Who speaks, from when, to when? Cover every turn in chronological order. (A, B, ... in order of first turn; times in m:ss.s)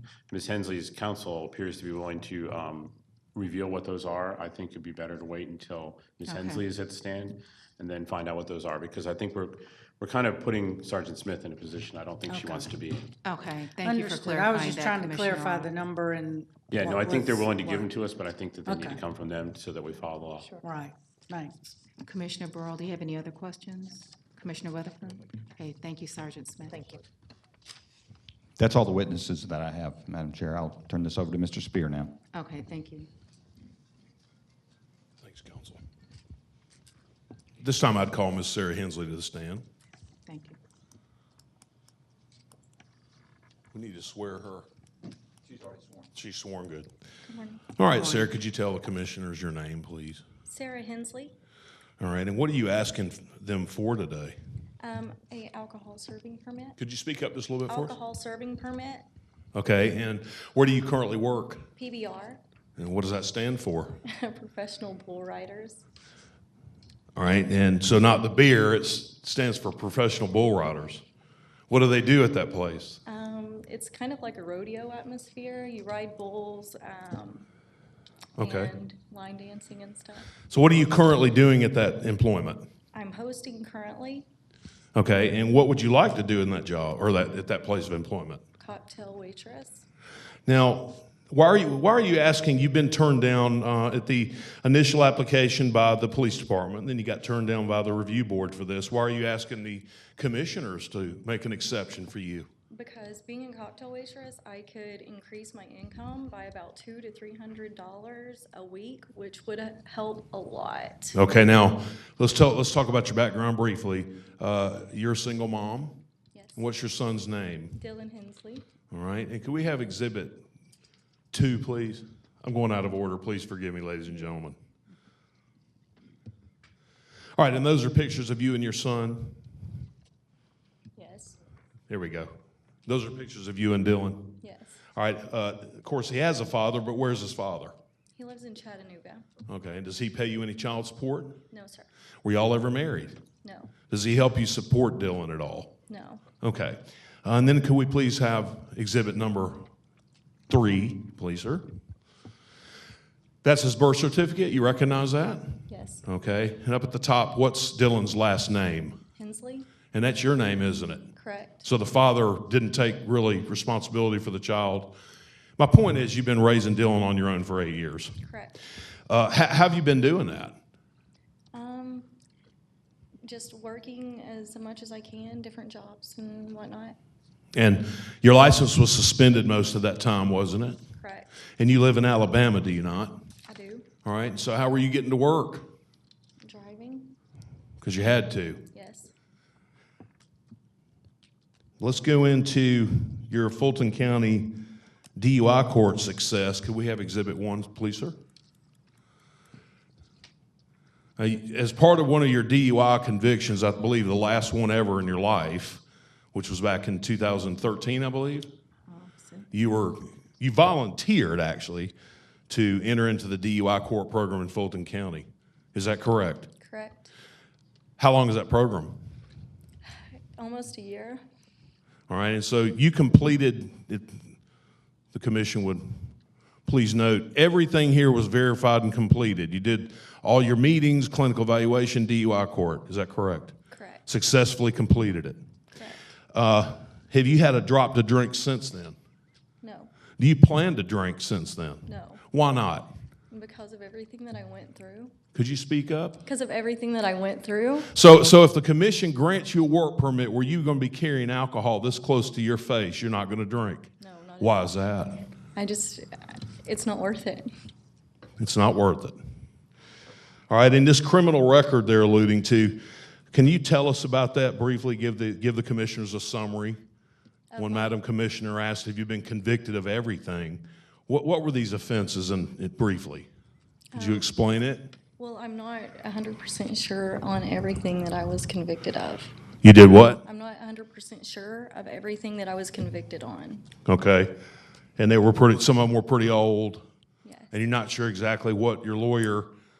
0:00.3-0:13.1 A
0:06.2-0:06.6 B
0:12.3-0:12.6 B
0:13.2-0:15.8 B
0:13.8-0:17.9 C
0:16.7-0:20.5 A
0:18.6-0:19.0 C
0:20.5-0:21.7 C
0:22.0-0:27.0 B
0:28.6-0:32.2 D
0:32.3-0:33.1 B
0:35.2-0:35.8 E
0:37.6-0:39.6 E
0:40.2-0:40.6 B
0:43.7-0:44.7 E
0:46.1-0:46.9 E
0:47.3-0:47.7 F
0:47.8-0:50.2 E
0:48.0-0:48.3 B
0:50.5-0:51.3 F
0:52.0-0:54.4 E
0:54.8-0:56.8 F
0:56.8-0:58.0 E
0:57.7-0:59.0 F
0:59.5-1:01.6 E
1:01.8-1:02.4 F
1:02.8-1:04.0 E
1:04.0-1:05.8 F
1:07.1-1:11.0 E
1:11.7-1:13.0 E
1:13.0-1:17.5 F
1:18.4-1:18.7 E
1:18.4-1:20.3 F
1:20.5-1:22.6 E
1:22.9-1:24.2 F
1:24.9-1:28.4 E
1:28.6-1:29.8 F
1:30.4-1:42.5 E
1:42.7-1:51.2 F
1:51.1-1:56.0 E
1:56.3-1:56.6 F
1:56.6-1:57.8 E
1:57.8-1:58.6 F
1:58.9-2:00.4 E
2:01.3-2:04.6 E
2:07.4-2:09.4 E
2:11.0-2:11.4 F
2:11.9-2:12.3 E
2:12.8-2:14.3 E
2:14.4-2:14.9 F
2:14.9-2:17.7 E
2:18.2-2:19.2 F
2:19.5-2:21.4 E
2:21.5-2:21.9 F
2:22.2-2:23.1 E
2:23.4-2:23.7 F
2:23.9-2:25.7 E
2:25.9-2:26.2 F
2:26.4-2:29.6 E
2:30.5-2:31.6 E
2:33.4-2:39.0 E
2:35.7-2:36.0 F
2:39.2-2:39.7 F
2:39.9-2:41.1 E
2:41.2-2:41.6 F
2:41.6-2:44.9 E
2:45.6-2:48.1 E
2:48.2-2:48.5 F
2:49.1-2:50.5 E
2:51.5-2:52.1 F
2:53.2-2:57.0 F
2:57.5-3:00.8 E
3:01.0-3:01.3 F
3:01.6-3:03.1 E
3:03.5-3:03.9 F
3:04.0-3:05.6 E
3:06.4-3:07.1 F
3:07.8-3:08.6 E
3:08.7-3:09.1 F
3:11.8-3:14.5 E
3:15.2-3:18.1 E
3:21.2-3:25.8 E
3:26.3-3:28.5 E
3:28.9-3:29.5 B
3:29.5-3:31.9 E
3:32.5-3:36.5 E
3:36.6-3:37.1 F
3:38.0-3:39.0 E
3:40.3-3:41.2 F
3:42.1-3:44.2 E
3:45.1-3:45.8 E
3:46.6-3:53.5 E
3:53.7-3:54.0 F
3:54.0-3:55.4 E
3:55.7-3:56.0 F
3:56.3-3:58.9 E
3:59.6-3:59.9 F
4:00.2-4:02.9 E
4:01.8-4:02.2 F
4:03.3-4:05.1 F
4:05.3-4:06.2 E
4:06.2-4:07.9 F
4:07.9-4:15.2 E
4:14.0-4:15.0 F
4:15.5-4:17.5 F
4:18.4-4:19.2 E
4:20.5-4:22.8 E
4:23.3-4:26.8 E
4:27.5-4:28.0 F
4:27.6-4:33.3 E
4:33.9-4:34.3 F
4:34.0-4:34.9 E
4:35.2-4:39.3 F
4:39.6-4:40.2 E
4:40.2-4:43.7 F
4:43.8-4:44.3 E
4:45.0-4:46.8 E
4:47.2-4:47.5 F
4:47.5-4:49.5 E